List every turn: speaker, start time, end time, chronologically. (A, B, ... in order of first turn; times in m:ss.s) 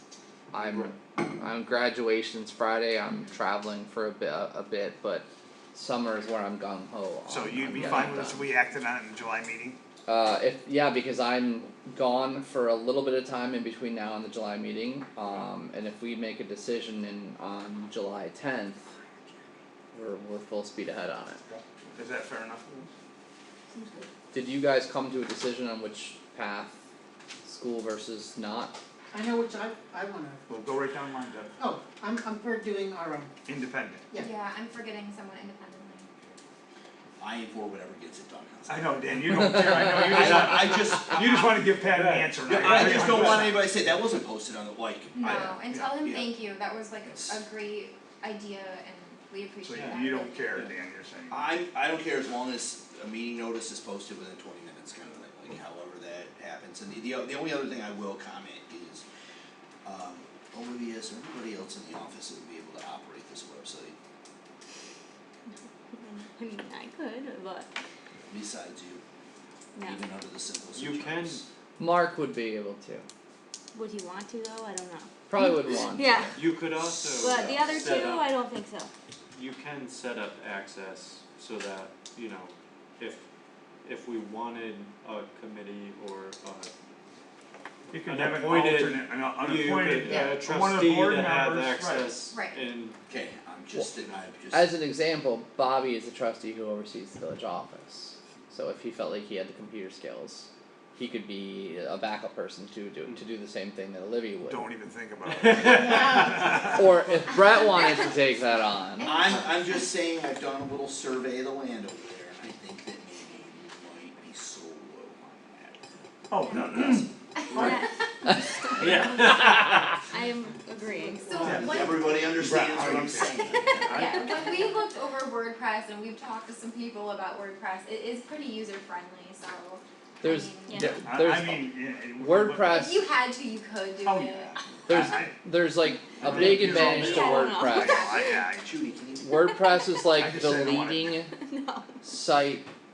0:00.5-0:08.5 A
0:00.5-0:00.9 B
0:07.3-0:09.8 C
0:10.1-0:18.9 A
0:19.9-0:21.4 A
0:21.5-0:22.9 C
0:23.7-0:24.0 D
0:24.3-0:26.8 A
0:27.4-0:28.8 A
0:29.1-0:30.4 D
0:30.5-0:31.6 C
0:31.6-0:33.3 D
0:33.5-0:34.0 C
0:34.1-0:36.1 E
0:37.2-0:41.7 F
0:38.7-0:43.6 C
0:40.2-0:40.6 B
0:41.9-0:43.5 B
0:42.4-0:46.3 F
0:45.2-0:50.4 E
0:45.7-0:46.0 C
0:47.1-0:47.4 F
0:49.6-0:51.4 C
0:51.3-0:59.0 F
0:59.8-1:04.0 F
1:06.0-1:07.7 G
1:08.3-1:09.0 F
1:09.7-1:10.0 G
1:09.8-1:11.4 F
1:10.7-1:11.4 B
1:11.8-1:13.0 A
1:13.7-1:16.3 G
1:15.3-1:16.1 A
1:16.0-1:17.7 F
1:16.3-1:18.3 B
1:17.2-1:18.9 G
1:19.3-1:23.2 B
1:23.8-1:26.7 B
1:27.9-1:32.2 C
1:28.0-1:33.0 B
1:32.3-1:32.6 E
1:33.1-1:34.7 F
1:34.5-1:44.6 A
1:44.5-1:46.9 C
1:45.4-1:45.9 B
1:46.6-1:49.2 A
1:49.0-1:49.8 E
1:49.0-1:55.8 F
1:56.3-1:57.7 C
1:56.4-1:56.7 G
1:56.5-1:57.8 F
1:57.6-1:59.2 G
1:58.9-1:59.6 B
1:59.2-1:59.8 A
2:00.1-2:01.4 G
2:01.2-2:02.4 E
2:01.4-2:01.8 C
2:01.4-2:04.1 F
2:02.4-2:04.5 C
2:03.9-2:10.8 E
2:10.2-2:13.0 A
2:10.8-2:12.8 C
2:12.7-2:14.5 E
2:14.0-2:15.3 C
2:14.9-2:18.0 A
2:16.2-2:18.8 C
2:16.3-2:16.7 B
2:16.7-2:18.4 G
2:18.6-2:19.3 F
2:19.2-2:21.3 A
2:20.1-2:21.2 C
2:21.3-2:22.0 G
2:22.0-2:22.7 A